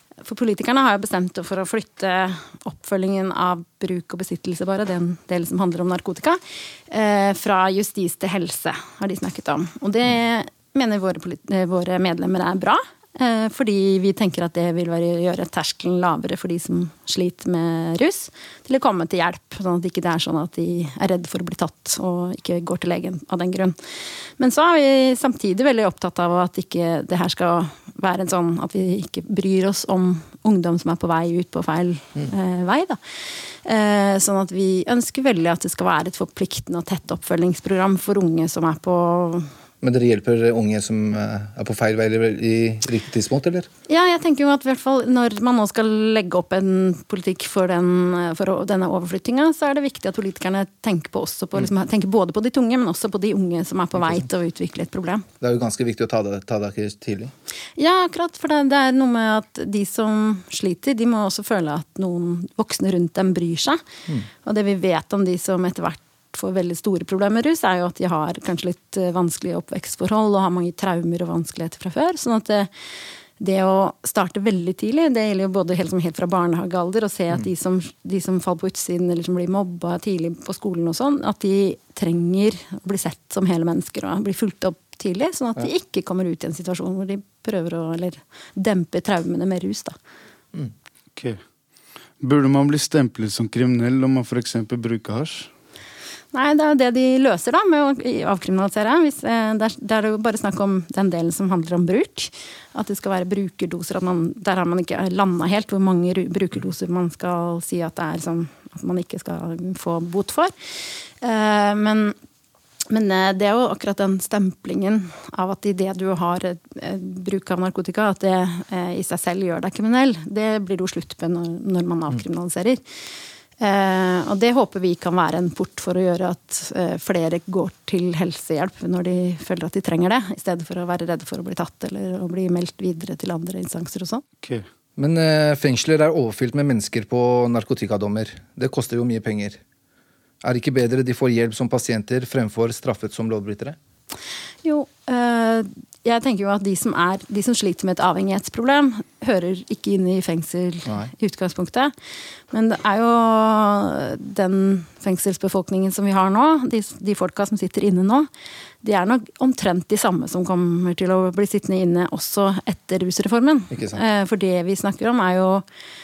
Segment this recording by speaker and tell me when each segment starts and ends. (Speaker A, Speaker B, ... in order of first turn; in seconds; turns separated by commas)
Speaker A: 0.2-23.8, Speaker A: 24.4-33.0, Speaker A: 33.5-39.5, Speaker B: 39.8-43.7, Speaker A: 43.9-55.2, Speaker B: 54.0-54.3, Speaker B: 55.4-57.3, Speaker A: 57.8-63.8, Speaker A: 64.4-72.7, Speaker A: 73.4-89.9, Speaker C: 91.1-91.5, Speaker C: 92.2-95.5, Speaker A: 96.3-110.5, Speaker A: 111.2-112.1, Speaker A: 112.9-122.8, Speaker A: 123.6-134.2, Speaker B: 135.0-139.6, Speaker B: 140.4-143.8, Speaker A: 144.6-151.9, Speaker B: 150.8-151.1, Speaker A: 152.5-158.3, Speaker A: 158.8-165.6, Speaker B: 163.7-164.0